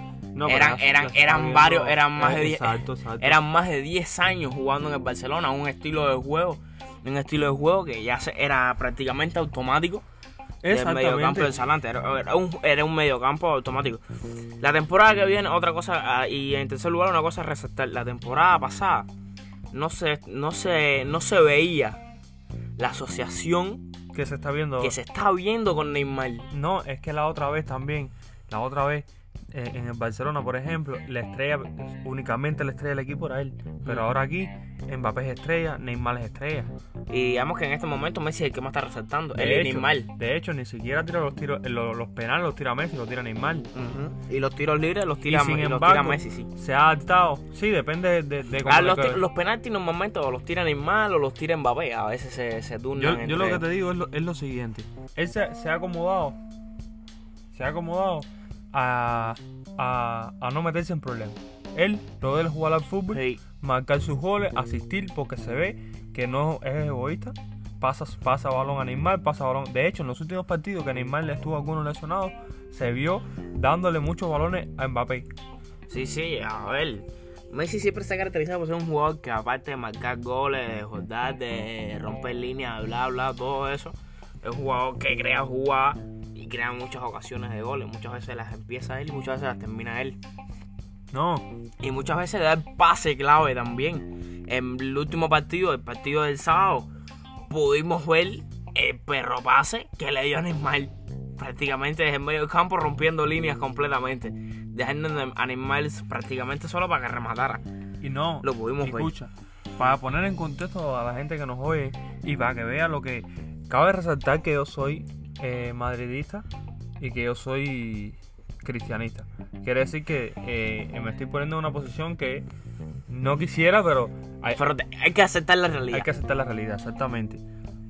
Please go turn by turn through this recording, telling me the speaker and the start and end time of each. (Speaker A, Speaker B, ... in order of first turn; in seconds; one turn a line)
Speaker A: 0.3-3.4
Speaker B: 0.5-10.0
Speaker A: 10.6-11.6
Speaker B: 10.7-14.0
Speaker B: 14.6-19.1
Speaker B: 19.7-22.0
Speaker B: 22.8-23.9
Speaker A: 24.1-25.0
Speaker B: 24.8-26.5
Speaker A: 26.5-36.7
Speaker B: 37.1-40.1
Speaker A: 39.4-43.7
Speaker B: 43.7-46.5
Speaker A: 45.2-49.2
Speaker B: 48.7-53.6
Speaker A: 53.0-56.4
Speaker A: 57.5-75.3
Speaker B: 63.1-63.4
Speaker B: 75.9-90.2
Speaker A: 91.1-91.5
Speaker B: 91.8-96.9
Speaker B: 97.5-107.6
Speaker A: 108.0-116.5
Speaker B: 108.4-109.1
Speaker A: 117.0-122.5
Speaker A: 123.1-124.6
Speaker B: 124.5-126.1
Speaker A: 125.9-127.4